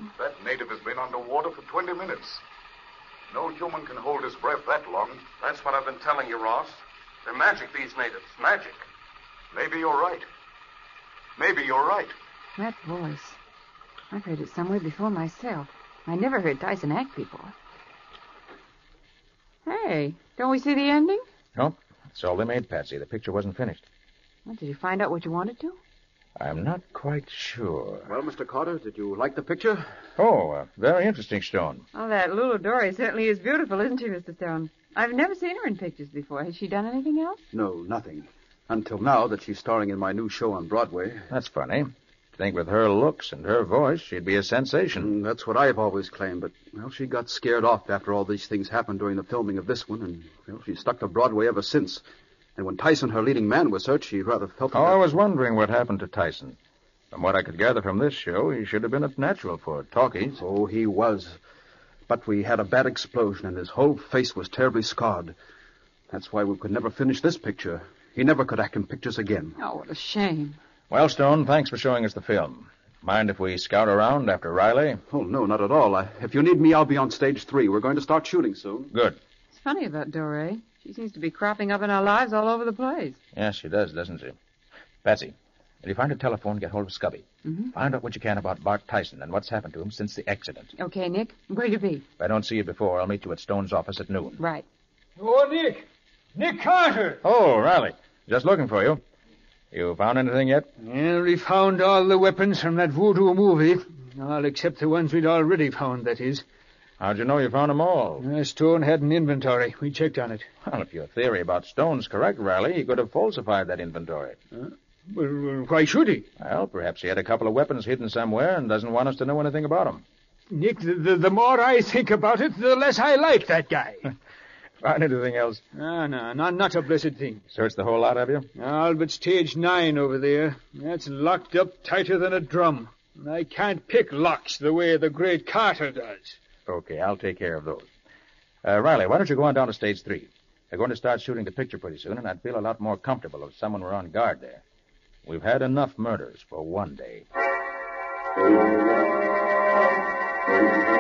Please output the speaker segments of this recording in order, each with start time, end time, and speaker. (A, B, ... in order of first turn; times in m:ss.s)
0:00.2-0:02.4 A
0:03.3-0:05.3 A
0:05.4-0:08.8 B
0:09.5-0:10.2 A
0:11.4-0:12.1 A
0:12.6-0:13.4 C
0:14.1-0:17.5 C
0:19.6-0:21.2 C
0:21.5-0:23.8 D
0:24.4-0:25.8 C
0:26.4-0:28.1 D
0:28.0-0:29.8 E
0:30.2-0:31.8 D
0:31.9-0:37.4 C
0:37.5-0:41.3 E
0:41.3-0:45.1 D
0:45.0-0:52.0 E
0:52.6-0:55.0 E
0:54.7-0:56.6 D
0:57.1-1:00.4 D
1:00.4-1:01.4 E
1:02.1-1:05.3 E
1:06.1-1:09.6 E
1:09.6-1:10.6 C
1:10.9-1:15.0 D
1:15.1-1:18.9 E
1:18.9-1:19.2 D
1:19.5-1:23.2 C
1:23.3-1:24.4 D
1:25.0-1:30.7 D
1:27.4-1:27.7 C
1:30.8-1:32.0 C
1:32.2-1:34.4 D
1:34.4-1:34.6 C
1:35.2-1:37.2 F
1:37.2-1:39.0 D
1:39.7-1:40.7 D
1:40.8-1:46.4 F
1:47.0-1:48.2 D
1:48.2-1:50.4 F
1:50.6-1:54.4 D
1:54.5-1:56.3 F
1:56.4-2:00.0 D
2:00.5-2:04.1 F
2:04.8-2:05.6 D
2:05.7-2:07.4 F
2:07.5-2:08.5 D
2:08.6-2:16.4 F
2:16.7-2:17.9 D
2:18.6-2:24.6 D
2:25.2-2:27.3 D